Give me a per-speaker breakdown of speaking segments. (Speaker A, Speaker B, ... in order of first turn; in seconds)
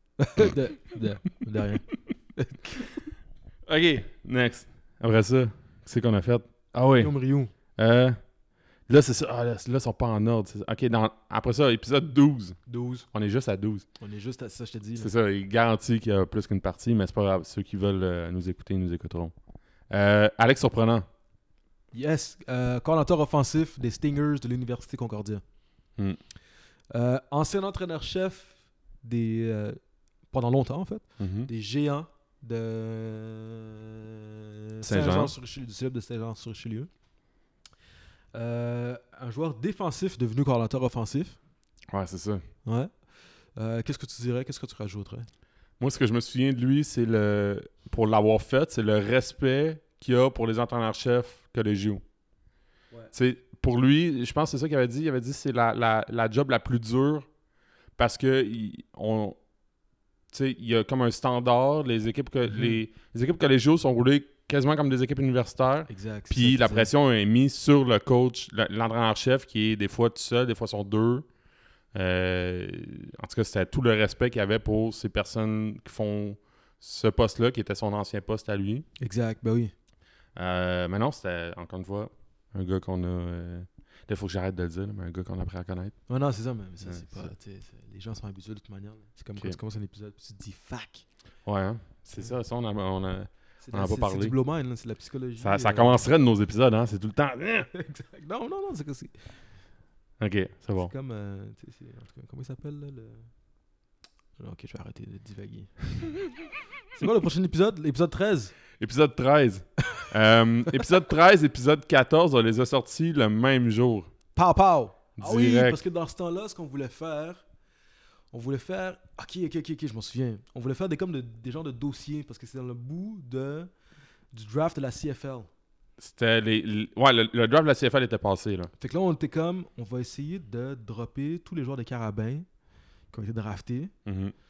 Speaker A: 0.2-3.0, 7.0-7.5, 12.7-13.1, 14.0-15.1, 21.9-25.4, 26.9-29.8, 30.3-36.9, 38.3-41.4, 42.6-42.9, 43.6-45.3, 62.5-62.8, 65.9-66.9, 79.0-79.7, 86.1-91.0, 93.6-96.0, 97.7-99.2, 100.8-103.3, 104.4-106.3, 106.9-108.5, 114.3-117.4, 118.3-123.7, 124.3-125.5, 128.8-132.5, 133.1-133.9
Speaker B: 3.7-7.1, 7.8-8.2, 8.9-12.6, 13.1-13.9, 15.0-19.3, 19.9-21.1, 31.2-31.5, 34.8-35.3, 41.9-42.4, 45.8-52.0, 53.1-57.3, 58.0-59.4, 60.3-71.3, 71.9-78.9, 80.4-86.0, 86.8-87.3, 91.5-94.3, 95.4-97.7, 100.2-100.9, 108.8-114.1, 115.2-115.8, 126.0-128.7, 134.1-134.3